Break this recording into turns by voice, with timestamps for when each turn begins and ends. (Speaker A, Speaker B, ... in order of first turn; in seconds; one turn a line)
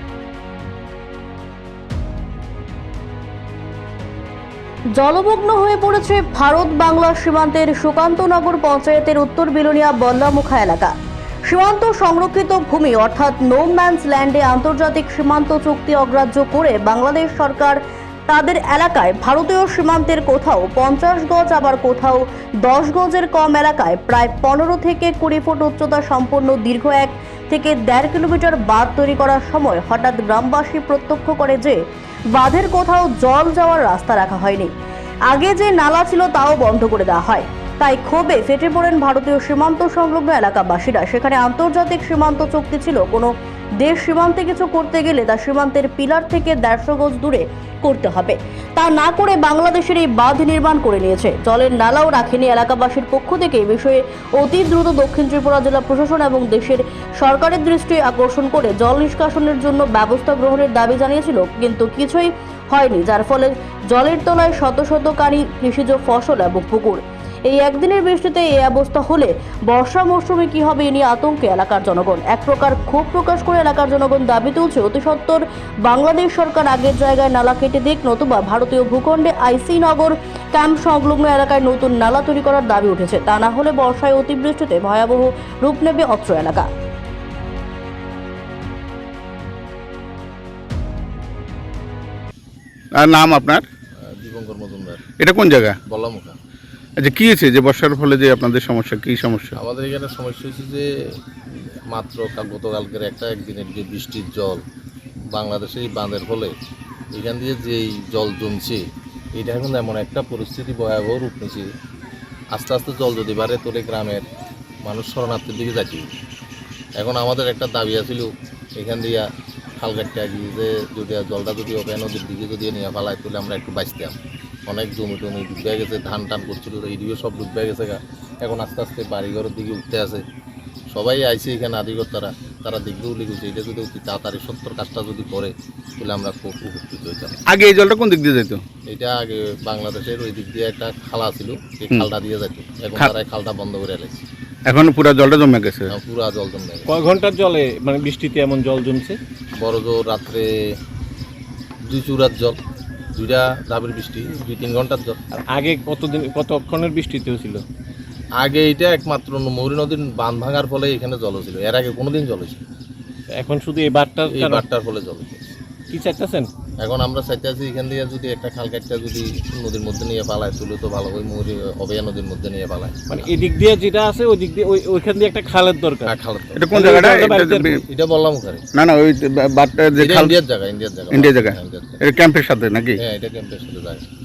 Speaker A: 5.0-10.9
Speaker A: 11.5-31.8
Speaker A: 32.3-34.7
Speaker A: 35.3-86.7
Speaker B: 93.0-93.6
Speaker C: 94.0-95.0
Speaker B: 95.2-95.8
Speaker C: 95.9-96.4
Speaker B: 97.0-99.6
Speaker C: 99.6-100.9
Speaker C: 101.9-104.6
Speaker C: 105.3-106.5
Speaker C: 107.1-108.8
Speaker C: 109.4-111.7
Speaker C: 112.5-114.3
Speaker C: 114.8-116.1
Speaker C: 117.0-119.2
Speaker C: 119.8-130.2
Speaker C: 130.9-137.4
Speaker B: 137.5-138.6
Speaker C: 138.9-144.2
Speaker B: 144.7-145.9
Speaker C: 145.9-146.9
Speaker D: 146.9-149.2
Speaker C: 149.6-150.5
Speaker C: 151.9-152.6
Speaker C: 153.2-155.2
Speaker D: 155.5-157.6
Speaker C: 158.4-162.6
Speaker D: 163.3-164.7
Speaker C: 164.3-165.6
Speaker D: 165.9-166.5
Speaker C: 166.8-173.0
Speaker D: 173.1-176.1
Speaker C: 176.1-176.7
Speaker B: 176.6-177.8
Speaker D: 176.7-177.8
Speaker C: 177.9-178.6
Speaker B: 178.8-180.3
Speaker C: 180.0-182.0
Speaker B: 181.1-183.0
Speaker C: 183.0-184.1